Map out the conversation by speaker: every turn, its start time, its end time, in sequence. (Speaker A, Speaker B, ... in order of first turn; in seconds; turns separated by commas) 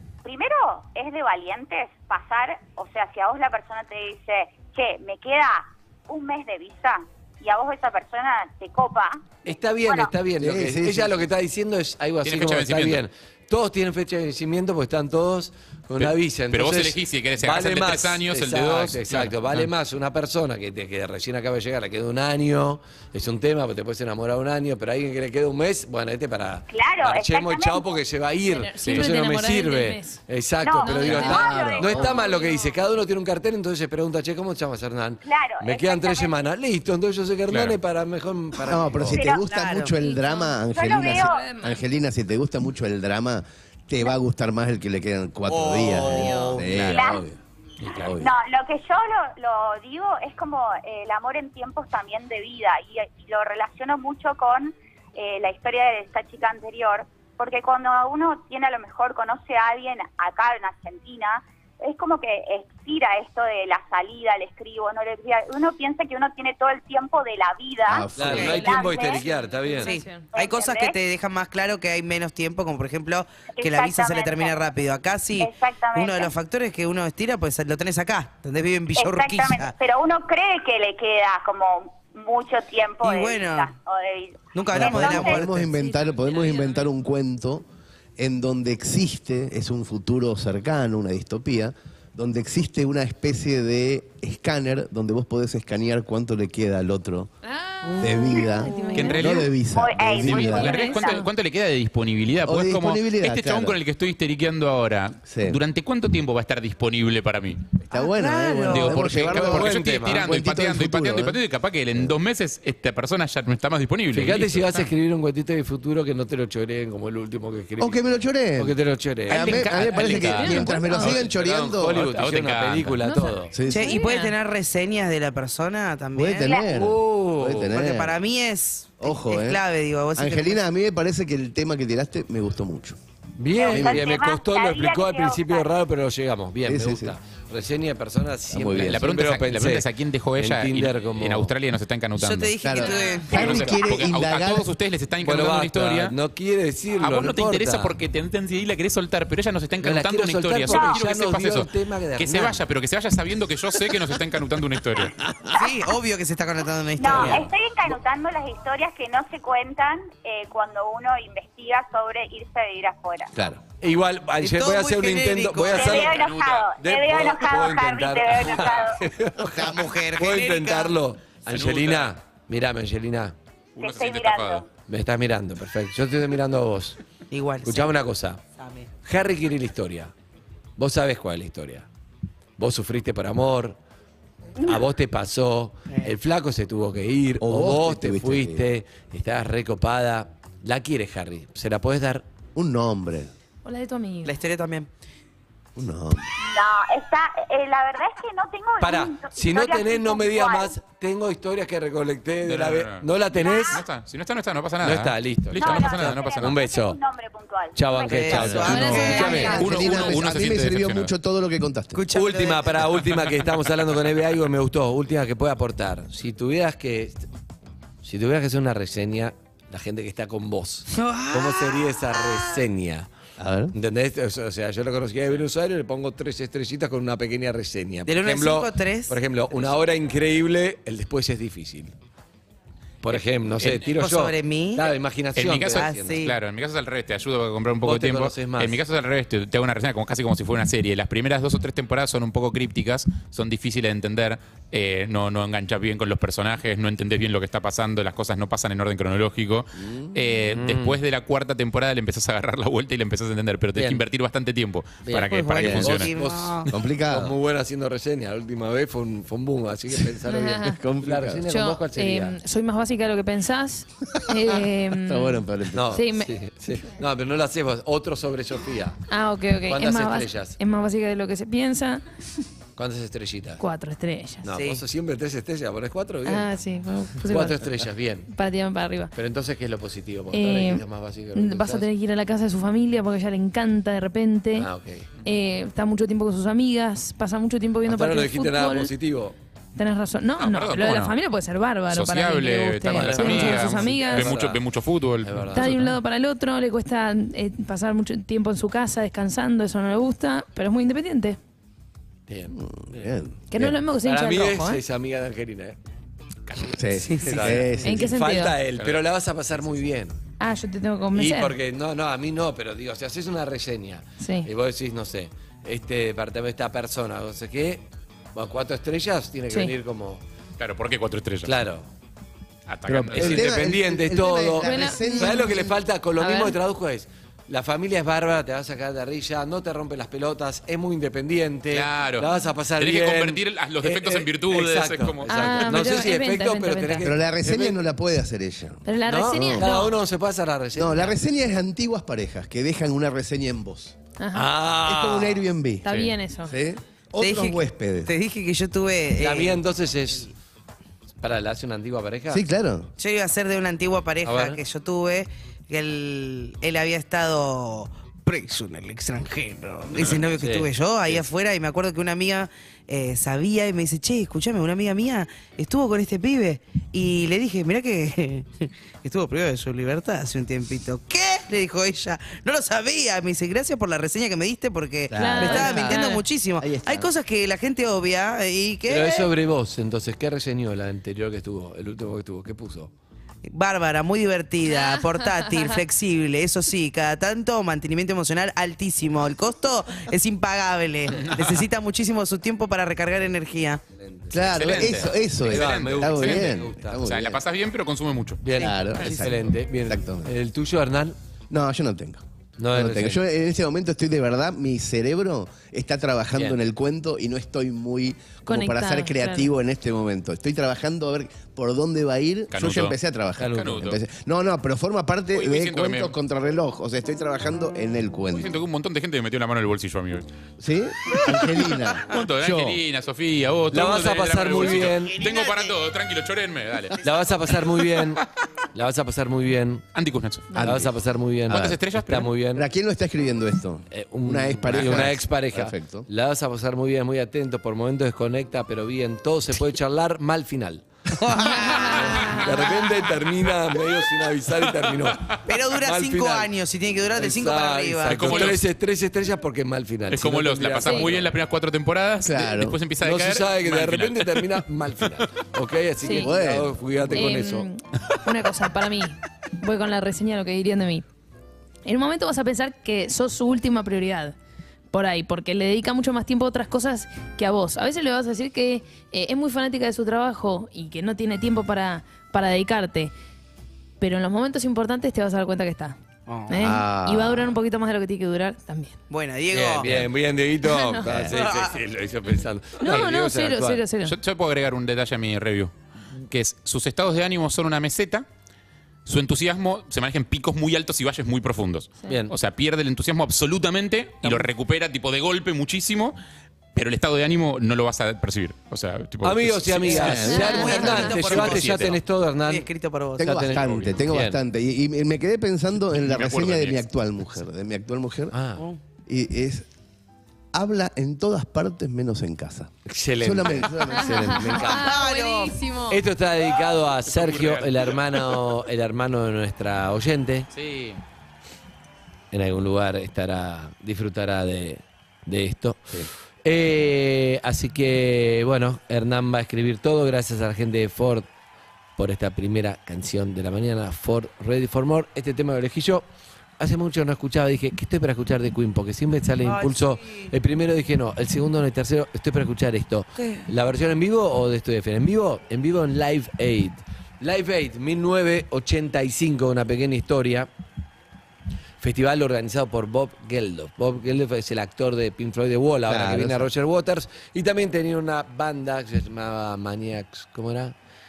Speaker A: 0.2-10.1, Speaker B: 9.4-39.2, Speaker C: 10.4-11.2, Speaker D: 12.2-13.0, Speaker D: 16.0-19.7, Speaker A: 26.7-27.9, Speaker E: 28.5-30.2, Speaker A: 30.6-32.5, Speaker E: 30.8-32.8, Speaker C: 31.7-32.0, Speaker A: 35.2-36.4, Speaker D: 37.5-37.8, Speaker C: 38.7-47.2, Speaker A: 39.1-39.4, Speaker F: 39.2-39.9, Speaker E: 40.0-41.8, Speaker A: 40.7-41.5, Speaker F: 45.5-46.6, Speaker E: 46.0-46.5, Speaker B: 46.6-48.3, Speaker A: 46.8-47.2, Speaker D: 47.8-48.1, Speaker A: 48.1-69.2, Speaker C: 67.9-68.6, Speaker B: 68.1-70.0, Speaker F: 68.2-68.6, Speaker E: 68.3-70.3, Speaker F: 69.8-79.7, Speaker A: 70.3-70.9, Speaker A: 73.5-74.6, Speaker A: 75.4-76.3, Speaker A: 79.0-85.4, Speaker F: 83.0-83.7, Speaker F: 84.5-85.5, Speaker C: 84.7-87.6, Speaker E: 84.8-86.9, Speaker C: 88.2-97.3, Speaker E: 97.4-99.3, Speaker C: 98.0-100.8, Speaker F: 98.7-99.0, Speaker D: 98.9-99.5, Speaker A: 99.7-101.2, Speaker D: 100.2-107.7, Speaker E: 100.2-101.3, Speaker C: 102.4-103.8, Speaker C: 105.3-105.6, Speaker C: 107.8-111.4, Speaker F: 107.9-109.0, Speaker D: 108.7-114.9, Speaker B: 109.3-110.3, Speaker B: 114.1-118.0, Speaker C: 117.8-118.7, Speaker B: 118.5-120.1, Speaker C: 119.3-122.1, Speaker D: 119.3-123.0, Speaker E: 119.5-121.2, Speaker B: 120.9-123.5, Speaker E: 123.0-124.3, Speaker C: 123.5-124.0, Speaker F: 123.7-126.7, Speaker C: 126.1-128.2, Speaker B: 126.7-127.7, Speaker F: 127.5-130.6, Speaker C: 129.0-129.6, Speaker C: 130.1-133.0, Speaker B: 133.4-141.5, Speaker A: 133.5-135.7, Speaker C: 133.6-134.0, Speaker C: 136.6-137.1, Speaker C: 138.5-139.1, Speaker D: 138.8-142.6, Speaker F: 142.2-143.8, Speaker C: 142.6-144.7, Speaker A: 143.2-143.6, Speaker D: 143.3-146.1, Speaker B: 145.2-147.9, Speaker D: 147.0-155.1, Speaker B: 149.8-152.6, Speaker A: 150.7-151.0, Speaker F: 155.6-157.5, Speaker A: 157.0-163.3, Speaker B: 157.1-157.5, Speaker C: 163.3-163.6, Speaker B: 163.8-173.3, Speaker F: 164.4-166.2, Speaker A: 165.7-169.0, Speaker D: 165.8-166.8, Speaker F: 169.4-170.9, Speaker D: 171.5-172.1, Speaker A: 173.8-174.6, Speaker D: 173.8-174.7, Speaker B: 174.9-177.0, Speaker F: 177.3-177.9, Speaker B: 177.6-178.4, Speaker F: 178.6-178.9, Speaker B: 179.0-180.1, Speaker B: 180.8-181.8, Speaker B: 182.6-183.8, Speaker B: 184.6-192.2, Speaker C: 187.4-188.6, Speaker C: 192.5-193.3, Speaker E: 193.6-194.3, Speaker F: 194.2-194.9, Speaker C: 195.7-196.3, Speaker A: 196.4-200.8, Speaker B: 198.8-203.8, Speaker D: 202.4-206.7, Speaker A: 203.3-203.8, Speaker B: 204.8-207.0, Speaker A: 205.6-209.4, Speaker B: 207.8-209.9, Speaker F: 208.0-209.8, Speaker C: 208.3-212.0, Speaker E: 208.6-209.6, Speaker D: 208.8-211.1, Speaker F: 211.9-212.9, Speaker B: 212.1-217.2, Speaker B: 218.0-223.1, Speaker F: 221.0-222.2, Speaker C: 223.4-223.7, Speaker B: 223.7-231.9, Speaker F: 228.1-229.2, Speaker B: 233.0-236.2, Speaker F: 234.0-234.9, Speaker D: 235.3-256.1, Speaker F: 235.7-236.4, Speaker B: 237.8-238.8, Speaker C: 249.8-250.1, Speaker B: 250.5-251.0, Speaker B: 253.8-254.0, Speaker B: 255.0-262.4, Speaker F: 255.3-256.7, Speaker C: 255.6-256.0, Speaker C: 256.7-257.3, Speaker E: 260.3-260.8, Speaker C: 260.8-261.4, Speaker E: 261.5-266.3, Speaker C: 265.0-266.0, Speaker B: 265.7-269.0, Speaker E: 269.1-272.0, Speaker B: 269.7-270.6, Speaker B: 272.8-273.6, Speaker E: 273.6-274.4, Speaker B: 274.4-276.5, Speaker F: 274.5-274.8, Speaker E: 276.2-277.6, Speaker B: 277.3-278.3, Speaker E: 278.3-279.1, Speaker B: 279.1-281.9, Speaker E: 280.3-280.8, Speaker E: 281.3-284.7, Speaker B: 284.5-285.1, Speaker E: 285.2-288.9, Speaker B: 287.9-289.4, Speaker E: 289.8-294.4, Speaker D: 290.4-291.1, Speaker D: 291.9-295.7, Speaker B: 292.9-294.6, Speaker B: 295.2-295.9, Speaker E: 295.5-301.4, Speaker B: 302.3-303.1, Speaker C: 302.5-303.7, Speaker E: 303.5-304.8, Speaker B: 304.0-305.8, Speaker C: 306.7-308.1, Speaker B: 307.1-310.2, Speaker E: 307.8-308.5, Speaker E: 310.4-311.5, Speaker B: 311.1-320.2, Speaker E: 314.2-314.5, Speaker D: 320.6-321.5, Speaker B: 321.4-321.9, Speaker D: 322.7-323.6, Speaker B: 322.9-337.8, Speaker C: 322.9-325.7, Speaker E: 324.6-325.6, Speaker E: 326.2-326.5, Speaker D: 331.7-336.0, Speaker E: 335.3-337.0, Speaker C: 337.0-339.6, Speaker E: 338.9-339.9, Speaker B: 339.1-341.1, Speaker C: 340.7-343.9, Speaker E: 344.2-344.5, Speaker B: 344.3-345.4, Speaker C: 344.8-348.1, Speaker E: 345.8-346.6, Speaker F: 347.2-349.6, Speaker B: 349.2-350.3, Speaker B: 351.2-352.4, Speaker C: 352.3-352.9, Speaker F: 353.0-379.3, Speaker B: 354.2-354.6, Speaker B: 360.0-361.2, Speaker C: 375.1-376.1, Speaker E: 375.1-376.2, Speaker C: 376.6-377.1, Speaker B: 378.9-382.9, Speaker F: 383.4-393.8, Speaker E: 384.7-385.5, Speaker D: 391.1-391.6, Speaker B: 394.0-397.0, Speaker C: 394.3-397.4, Speaker D: 394.5-398.4, Speaker B: 398.4-401.1, Speaker F: 398.6-399.3, Speaker C: 398.6-400.3, Speaker C: 401.5-418.5, Speaker B: 402.6-403.2, Speaker E: 408.4-409.5, Speaker D: 412.5-414.0, Speaker B: 413.4-413.9, Speaker D: 415.3-416.1, Speaker D: 418.3-420.2, Speaker C: 420.6-422.8, Speaker D: 422.1-427.0, Speaker B: 423.7-425.2, Speaker F: 425.2-425.6, Speaker B: 427.0-429.8, Speaker D: 429.9-430.6, Speaker C: 430.5-430.9, Speaker B: 430.6-432.6, Speaker C: 431.5-431.8, Speaker D: 431.5-432.2, Speaker C: 432.5-436.1, Speaker B: 433.9-440.8, Speaker D: 434.7-435.1, Speaker F: 441.2-442.3, Speaker E: 441.5-442.9, Speaker B: 441.8-446.5, Speaker F: 445.4-448.5, Speaker B: 447.1-451.3, Speaker D: 448.1-448.6, Speaker D: 450.1-454.6, Speaker E: 450.8-451.1, Speaker C: 452.2-452.8, Speaker B: 453.0-457.7, Speaker C: 456.0-456.8, Speaker E: 456.0-456.3, Speaker E: 457.1-461.1, Speaker E: 461.8-464.3, Speaker E: 464.9-473.1, Speaker E: 474.0-476.0, Speaker F: 476.3-476.6, Speaker E: 476.5-478.9, Speaker C: 476.5-477.6, Speaker F: 479.1-480.1, Speaker B: 479.5-483.8, Speaker E: 480.6-481.1, Speaker C: 481.1-481.3, Speaker F: 481.3-481.8, Speaker E: 482.8-484.1, Speaker D: 484.0-485.7, Speaker D: 486.3-488.2, Speaker D: 489.0-496.1, Speaker D: 496.7-500.4, Speaker B: 499.2-502.6, Speaker C: 499.9-500.8, Speaker F: 500.0-503.4, Speaker E: 500.3-501.1, Speaker D: 501.2-502.0, Speaker C: 503.2-508.3, Speaker B: 503.2-504.4, Speaker D: 506.0-506.8, Speaker B: 508.3-508.6, Speaker C: 509.1-509.6, Speaker C: 510.5-514.8, Speaker B: 512.9-514.9, Speaker E: 513.9-516.0, Speaker F: 514.7-515.5, Speaker B: 515.9-520.5, Speaker D: 517.1-518.4, Speaker D: 520.5-521.0, Speaker B: 522.3-531.3, Speaker B: 532.0-536.1, Speaker B: 536.6-550.5, Speaker F: 539.4-540.3, Speaker F: 543.2-543.5, Speaker B: 551.8-560.7, Speaker C: 555.9-556.5